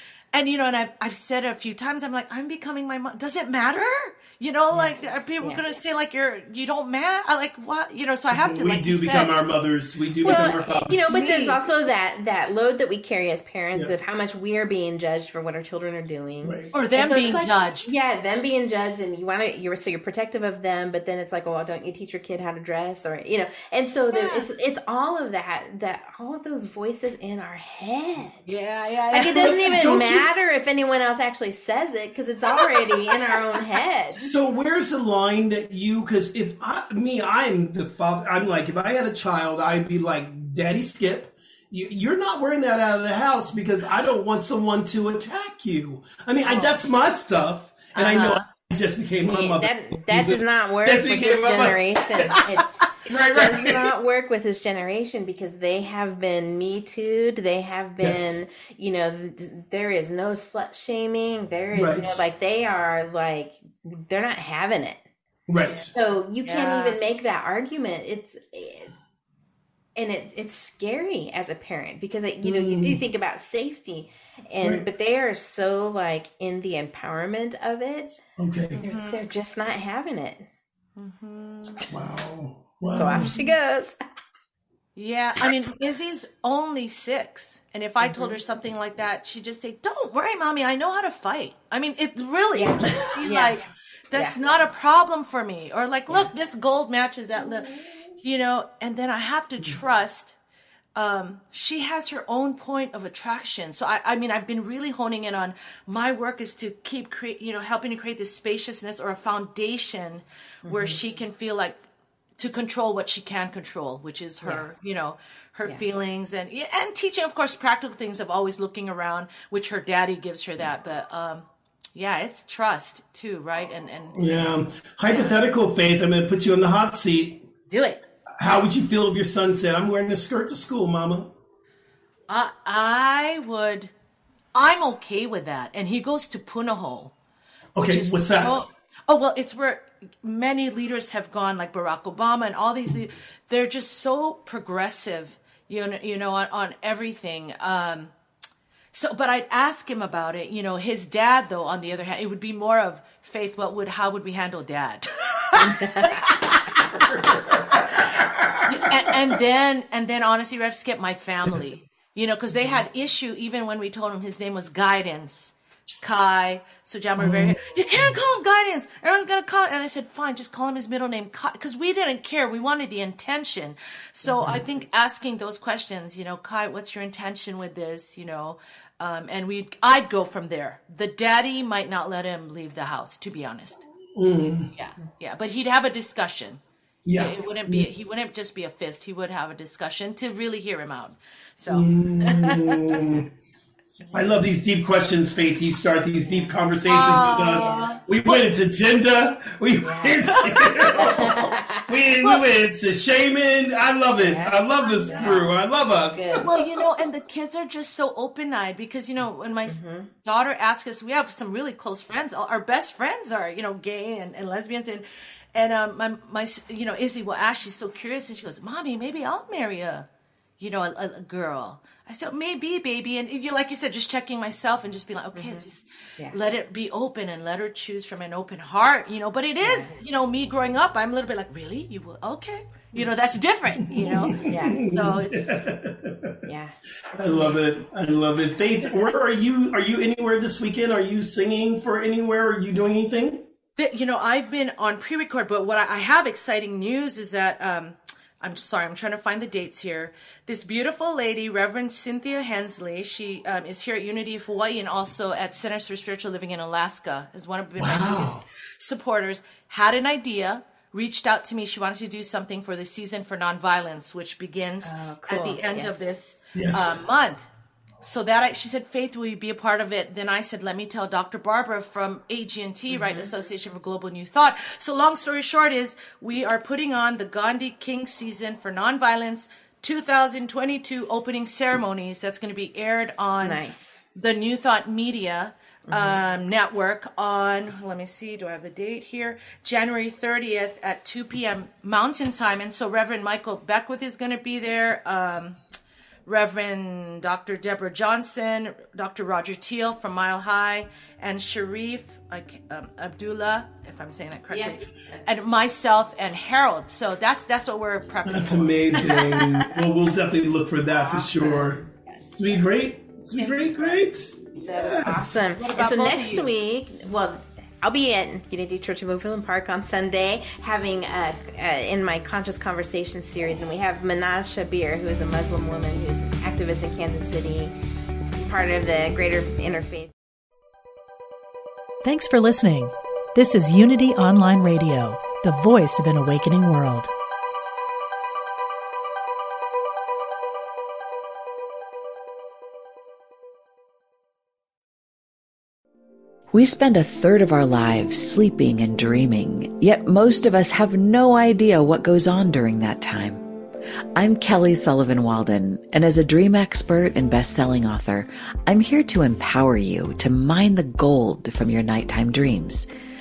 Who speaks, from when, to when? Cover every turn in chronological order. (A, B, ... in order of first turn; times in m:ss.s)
0:00.3-0:09.4 A
0:04.7-0:05.8 B
0:08.3-0:11.3 C
0:10.2-0:28.4 B
0:10.2-0:11.6 A
0:16.4-0:16.7 C
0:16.7-0:17.9 A
0:24.1-0:24.5 A
0:28.4-0:29.6 A
0:29.1-0:34.3 B
0:29.3-0:30.3 C
0:32.5-0:33.4 A
0:34.2-0:51.8 C
0:46.4-0:46.8 A
0:47.9-0:48.4 A
0:49.3-1:05.0 B
0:53.1-0:53.9 C
0:58.0-0:58.4 C
1:01.7-1:02.2 C
1:05.5-1:05.9 C
1:05.6-1:05.9 A
1:05.9-1:08.9 B
1:06.4-1:07.0 A
1:10.0-1:18.2 B
1:12.4-1:13.0 C
1:18.4-1:18.8 C
1:18.8-1:19.2 A
1:18.8-1:20.4 B
1:21.0-1:21.9 A
1:21.9-1:23.4 C
1:22.9-1:23.9 B
1:25.0-1:40.4 A
1:28.0-1:28.4 B
1:32.5-1:33.6 B
1:34.1-1:34.5 B
1:40.9-1:51.8 A
1:50.6-1:51.0 B
1:52.4-2:04.3 A
2:04.1-2:07.5 C
2:05.1-2:05.3 A
2:07.7-2:08.0 A
2:08.4-2:11.3 C
2:12.3-2:13.9 A
2:14.5-2:17.1 A
2:17.8-2:18.5 C
2:17.8-2:28.1 A
2:28.9-2:36.4 A
2:35.6-2:36.8 B
2:37.1-2:39.1 C
2:38.6-3:03.8 A
2:47.2-2:48.2 C
2:54.2-2:54.6 C
3:04.1-3:04.7 C
3:04.8-3:06.6 A
3:07.0-3:07.9 C
3:07.1-3:13.0 A
3:11.7-3:13.3 C
3:14.1-3:26.4 C
3:16.3-3:16.5 B
3:16.8-3:18.4 A
3:17.4-3:18.0 B
3:19.8-3:20.2 B
3:20.2-3:21.0 A
3:21.0-3:21.9 B
3:24.2-3:25.5 B
3:24.8-3:25.4 A
3:26.1-3:26.5 B
3:26.4-3:40.1 A
3:29.6-3:30.1 B
3:40.6-3:55.6 A
3:45.3-3:45.6 B
3:49.6-3:50.0 B
3:53.8-3:56.4 C
3:54.4-3:54.8 B
3:56.4-3:57.6 B
3:57.1-4:03.5 C
4:03.8-4:27.4 A
4:17.8-4:18.4 C
4:24.8-4:26.1 B
4:26.5-4:27.0 C
4:28.0-4:43.6 A
4:32.9-4:33.3 B
4:43.4-4:44.0 B
4:44.1-4:55.6 A
4:45.9-4:46.2 B
4:56.2-5:09.7 A
5:04.5-5:05.2 B
5:08.2-5:11.8 C
5:10.8-5:11.9 B
5:12.0-5:12.4 A
5:12.3-5:15.4 C
5:13.4-5:13.7 A
5:13.4-5:14.0 B
5:14.6-5:27.8 B
5:15.6-5:16.5 A
5:28.4-5:30.1 B
5:32.0-5:37.1 D
5:46.5-5:53.5 E
5:54.2-6:02.9 E